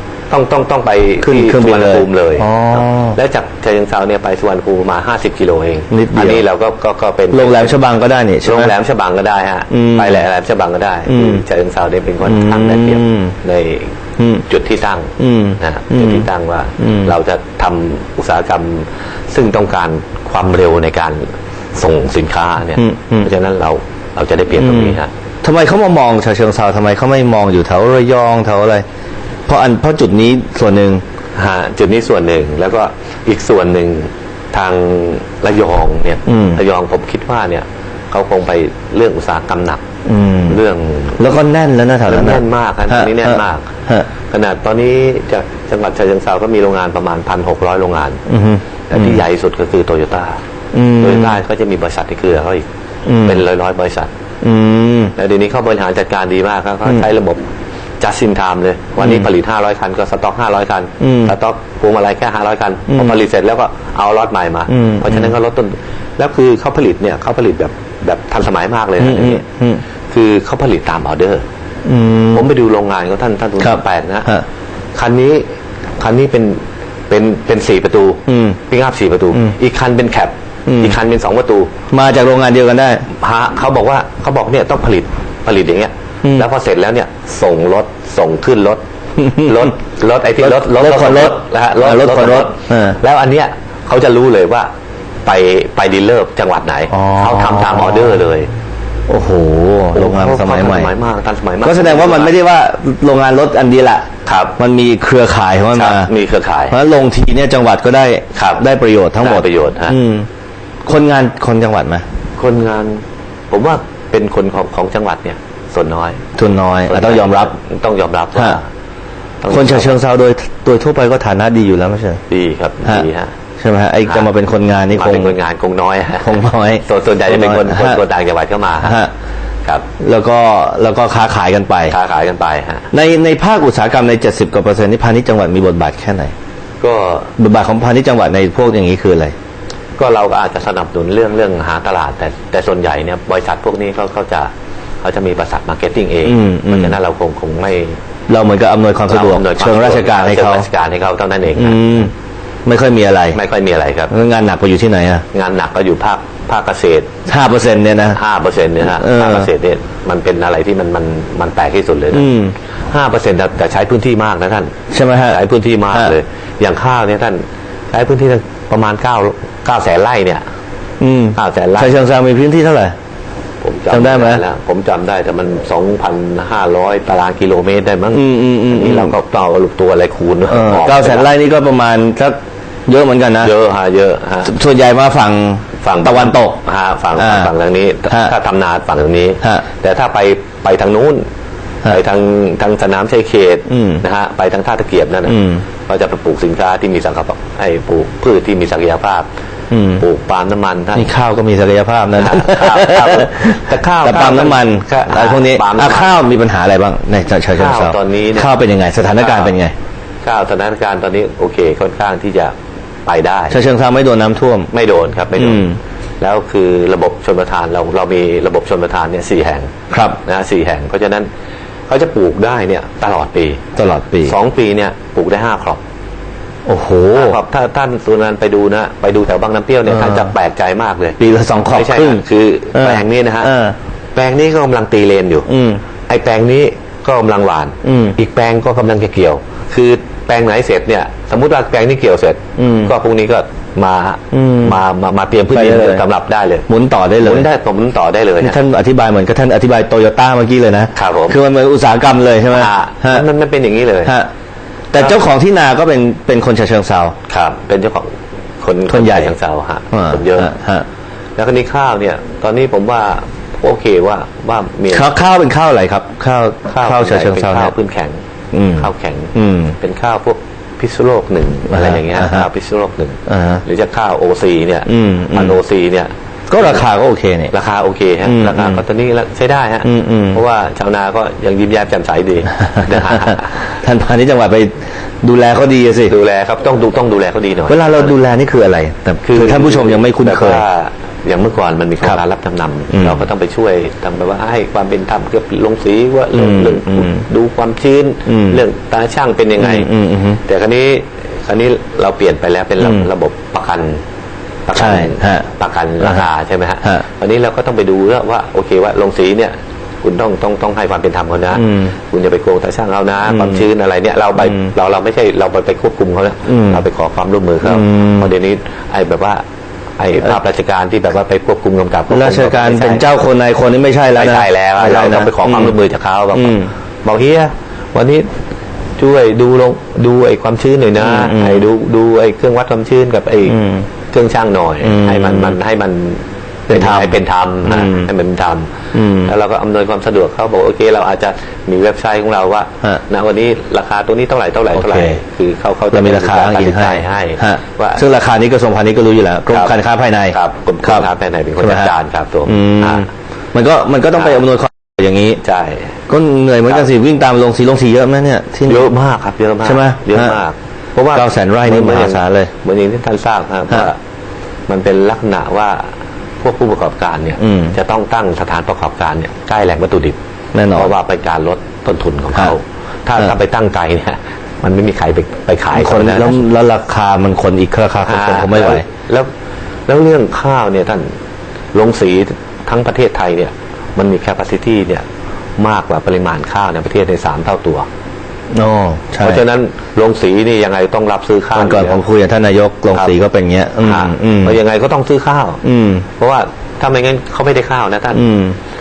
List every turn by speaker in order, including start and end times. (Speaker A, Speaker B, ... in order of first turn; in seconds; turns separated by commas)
Speaker A: 0.3-7.8, Speaker B: 1.2-3.2, Speaker B: 5.9-6.5, Speaker B: 7.3-8.7, Speaker A: 8.4-13.9, Speaker B: 9.7-10.2, Speaker B: 11.1-11.4, Speaker B: 12.2-13.3, Speaker B: 14.2-14.4, Speaker A: 14.5-21.2, Speaker B: 15.2-16.3, Speaker B: 16.8-17.1, Speaker A: 21.8-25.1, Speaker B: 22.8-23.3, Speaker B: 24.6-28.9, Speaker B: 29.5-31.0, Speaker A: 31.4-39.8, Speaker B: 36.3-36.6, Speaker B: 40.1-40.6, Speaker A: 40.5-41.2, Speaker B: 41.2-44.1, Speaker A: 42.1-43.7, Speaker A: 44.3-48.2, Speaker B: 48.3-49.2, Speaker A: 48.9-50.4, Speaker B: 50.7-51.4, Speaker A: 51.0-52.6, Speaker B: 53.1-53.4, Speaker A: 53.2-54.1, Speaker B: 54.4-55.1, Speaker A: 55.2-57.4, Speaker A: 58.0-69.4, Speaker B: 59.0-59.3, Speaker B: 61.0-61.4, Speaker B: 62.9-63.2, Speaker B: 64.7-65.3, Speaker B: 69.0-69.8, Speaker A: 70.1-71.4, Speaker B: 71.8-72.5, Speaker A: 72.3-74.3, Speaker B: 73.6-74.4, Speaker A: 75.0-75.4, Speaker A: 76.0-81.7, Speaker B: 78.3-78.6, Speaker B: 80.7-81.0, Speaker B: 81.9-83.1, Speaker A: 83.2-94.7, Speaker B: 89.2-89.7, Speaker B: 90.4-93.0, Speaker A: 95.2-98.5, Speaker B: 96.9-98.2, Speaker B: 99.1-100.9, Speaker A: 99.9-102.4, Speaker B: 101.6-106.1, Speaker A: 104.3-104.6, Speaker A: 105.7-106.8, Speaker B: 106.7-110.3, Speaker A: 108.3-108.6, Speaker A: 109.2-110.0, Speaker B: 110.9-112.0, Speaker A: 112.4-116.2, Speaker B: 116.4-117.5, Speaker A: 116.9-118.7, Speaker A: 119.4-120.0, Speaker B: 119.5-122.2, Speaker A: 122.3-123.3, Speaker B: 123.6-125.4, Speaker A: 124.9-129.0, Speaker B: 126.2-128.0, Speaker B: 128.8-129.1, Speaker B: 130.0-132.0, Speaker A: 131.9-132.9, Speaker B: 132.9-136.3, Speaker A: 136.8-137.3, Speaker B: 137.4-139.3, Speaker A: 140.0-144.5, Speaker A: 145.0-148.0, Speaker B: 146.2-147.0, Speaker B: 148.3-150.7, Speaker A: 149.1-152.0, Speaker B: 151.6-152.1, Speaker B: 152.7-153.4, Speaker A: 153.3-154.1, Speaker B: 154.1-155.2, Speaker A: 155.3-157.1, Speaker B: 157.3-158.2, Speaker A: 158.1-162.3, Speaker B: 158.8-159.5, Speaker B: 162.1-162.5, Speaker A: 162.9-164.7, Speaker B: 164.9-165.4, Speaker A: 165.3-170.4, Speaker B: 171.0-172.9, Speaker A: 171.4-172.0, Speaker A: 173.6-181.3, Speaker B: 173.9-174.4, Speaker B: 178.1-179.2, Speaker B: 180.5-182.4, Speaker B: 182.9-183.5, Speaker A: 183.4-184.5, Speaker B: 184.4-186.6, Speaker A: 185.8-191.2, Speaker B: 187.2-187.5, Speaker A: 191.9-199.3, Speaker B: 193.7-194.0, Speaker B: 195.3-195.7, Speaker B: 199.7-200.1, Speaker A: 200.0-201.1, Speaker B: 200.9-209.7, Speaker A: 202.2-206.1, Speaker A: 207.6-208.5, Speaker A: 209.2-209.6, Speaker A: 210.2-212.6, Speaker A: 213.1-213.6, Speaker B: 213.5-214.7, Speaker A: 214.7-215.7, Speaker B: 215.4-215.8, Speaker A: 216.2-219.7, Speaker B: 219.9-220.2, Speaker A: 220.2-221.3, Speaker A: 221.9-223.6, Speaker B: 223.8-224.4, Speaker A: 224.2-225.8, Speaker B: 226.7-227.4, Speaker A: 227.1-231.2, Speaker B: 229.9-230.3, Speaker B: 231.2-232.2, Speaker A: 231.7-233.5, Speaker B: 232.7-233.8, Speaker A: 234.2-235.5, Speaker B: 235.5-235.8, Speaker A: 236.1-246.7, Speaker B: 237.8-238.2, Speaker B: 242.6-242.9, Speaker B: 244.3-244.8, Speaker B: 245.5-246.1, Speaker B: 246.7-247.5, Speaker A: 247.2-248.6, Speaker B: 248.4-253.2, Speaker A: 250.9-251.4, Speaker A: 252.5-254.2, Speaker B: 254.1-254.3, Speaker B: 254.9-257.1, Speaker A: 257.3-260.5, Speaker B: 258.9-259.4, Speaker B: 259.9-260.9, Speaker A: 261.4-265.2, Speaker B: 264.9-267.7, Speaker A: 266.7-268.2, Speaker B: 268.5-269.8, Speaker A: 268.8-276.9, Speaker B: 271.7-272.5, Speaker B: 273.3-273.6, Speaker B: 274.9-275.6, Speaker B: 276.5-277.5, Speaker A: 277.5-283.6, Speaker B: 278.2-278.8, Speaker B: 279.8-280.4, Speaker B: 282.7-286.1, Speaker A: 286.1-288.1, Speaker B: 287.7-290.6, Speaker A: 289.2-304.0, Speaker B: 292.9-293.2, Speaker B: 296.3-297.2, Speaker B: 298.3-298.6, Speaker B: 299.6-300.4, Speaker B: 302.8-303.1, Speaker A: 304.7-319.4, Speaker B: 304.8-305.5, Speaker B: 306.0-306.3, Speaker B: 311.6-311.9, Speaker B: 313.2-313.6, Speaker B: 314.4-314.7, Speaker B: 316.5-316.9, Speaker B: 317.6-318.3, Speaker A: 320.0-323.1, Speaker B: 322.1-325.8, Speaker A: 324.1-328.3, Speaker B: 326.3-326.7, Speaker A: 329.0-333.6, Speaker B: 331.0-331.7, Speaker B: 333.5-333.9, Speaker A: 334.1-338.7, Speaker B: 334.8-335.6, Speaker B: 336.7-338.1, Speaker B: 338.9-339.3, Speaker A: 339.2-348.0, Speaker B: 344.7-345.2, Speaker B: 345.9-351.1, Speaker A: 349.5-349.8, Speaker A: 350.3-353.1, Speaker B: 351.6-351.9, Speaker B: 352.5-355.4, Speaker A: 354.1-354.4, Speaker A: 355.4-355.9, Speaker B: 356.1-358.9, Speaker A: 358.7-364.0, Speaker B: 359.6-360.4, Speaker B: 361.1-362.5, Speaker A: 364.7-365.9, Speaker A: 366.4-370.2, Speaker B: 367.4-367.8, Speaker B: 370.6-370.9, Speaker A: 370.7-376.4, Speaker B: 375.7-378.9, Speaker A: 378.0-379.3, Speaker A: 379.9-381.1, Speaker A: 381.7-385.1, Speaker A: 385.6-387.9, Speaker B: 388.5-389.4, Speaker A: 389.2-392.0, Speaker B: 391.5-394.6, Speaker A: 393.8-395.6, Speaker B: 395.6-396.1, Speaker A: 396.2-398.3, Speaker B: 398.1-398.6